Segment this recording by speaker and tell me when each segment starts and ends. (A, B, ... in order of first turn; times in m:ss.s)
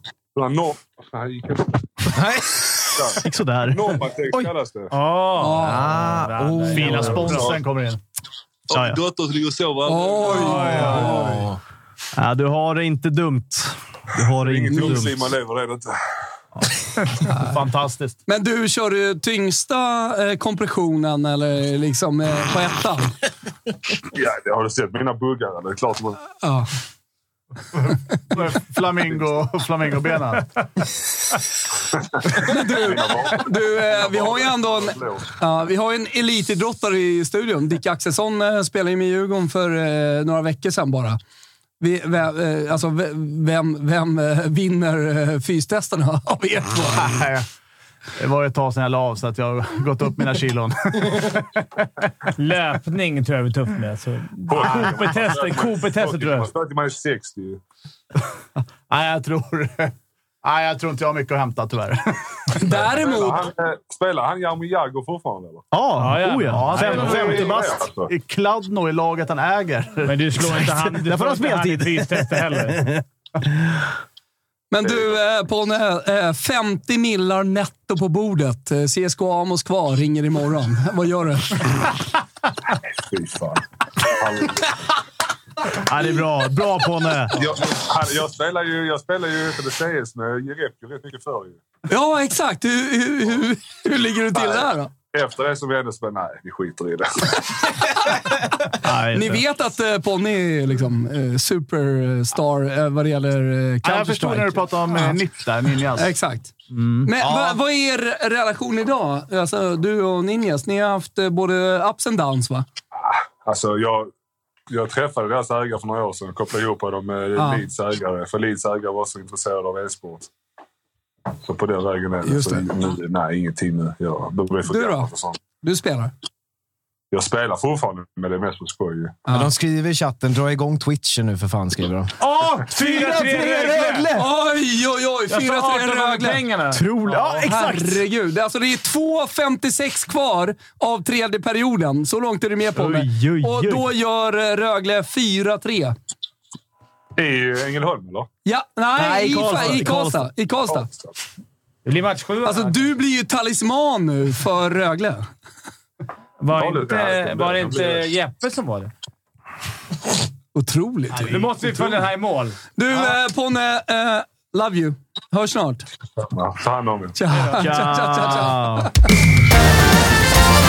0:00.3-0:02.2 A
0:02.1-0:03.0 B
0:02.9-0:04.9 A
0:03.2-0:04.4 C
0:04.9-0:07.5 D
0:05.4-0:05.9 E
0:05.6-0:07.5 B
0:06.7-0:08.0 F
0:07.2-0:07.5 A
0:08.7-0:11.0 A
0:09.9-0:11.4 E
0:10.3-0:11.2 D
0:11.0-0:11.6 B
0:12.2-0:15.2 C
0:14.4-0:16.0 A
0:17.3-0:18.1 F
0:18.3-0:23.1 E
0:24.1-0:26.2 A
0:26.4-0:26.7 E
0:28.3-0:30.5 F
0:32.2-0:35.3 A
0:32.4-0:41.2 E
0:41.8-0:47.2 E
0:47.0-0:47.4 F
0:48.2-0:51.4 F
0:52.4-0:56.5 D
0:54.5-0:57.6 A
0:58.9-0:59.9 F
1:00.4-1:02.0 F
1:02.6-1:03.5 E
1:02.7-1:05.6 A
1:05.7-1:07.8 C
1:06.0-1:07.5 D
1:06.5-1:10.8 F
1:06.8-1:08.1 A
1:10.0-1:12.8 D
1:11.0-1:12.0 C
1:14.7-1:21.8 E
1:14.8-1:15.2 A
1:23.0-1:24.7 A
1:25.8-1:27.4 C
1:27.3-1:31.6 A
1:31.9-1:34.9 E
1:34.3-1:37.4 A
1:38.8-1:39.4 C
1:39.1-1:45.2 E
1:43.8-1:46.1 F
1:46.0-1:46.5 E
1:46.7-1:47.1 F
1:47.0-1:52.6 E
1:53.1-1:54.1 A
1:54.7-2:00.3 A
1:57.4-1:57.6 E
2:01.4-2:05.4 A
2:02.2-2:02.6 E
2:04.7-2:05.1 E
2:05.6-2:06.1 E
2:07.1-2:09.2 A
2:09.2-2:09.5 E
2:09.3-2:12.1 B
2:12.2-2:14.1 D
2:12.6-2:14.3 C
2:14.1-2:16.4 E
2:15.3-2:17.4 D
2:16.7-2:18.0 C
2:17.3-2:26.0 E
2:22.8-2:23.9 C
2:27.2-2:28.3 A
2:28.4-2:30.9 E
2:29.0-2:30.3 C
2:30.7-2:31.1 A
2:31.8-2:32.9 D
2:32.4-2:35.3 E
2:36.4-2:38.9 D
2:36.5-2:38.0 A
2:40.5-2:42.0 E
2:41.1-2:42.6 D
2:42.8-2:45.9 E
2:46.2-2:47.2 A
2:47.1-2:48.9 E
2:47.3-2:47.7 D
2:47.5-2:48.9 C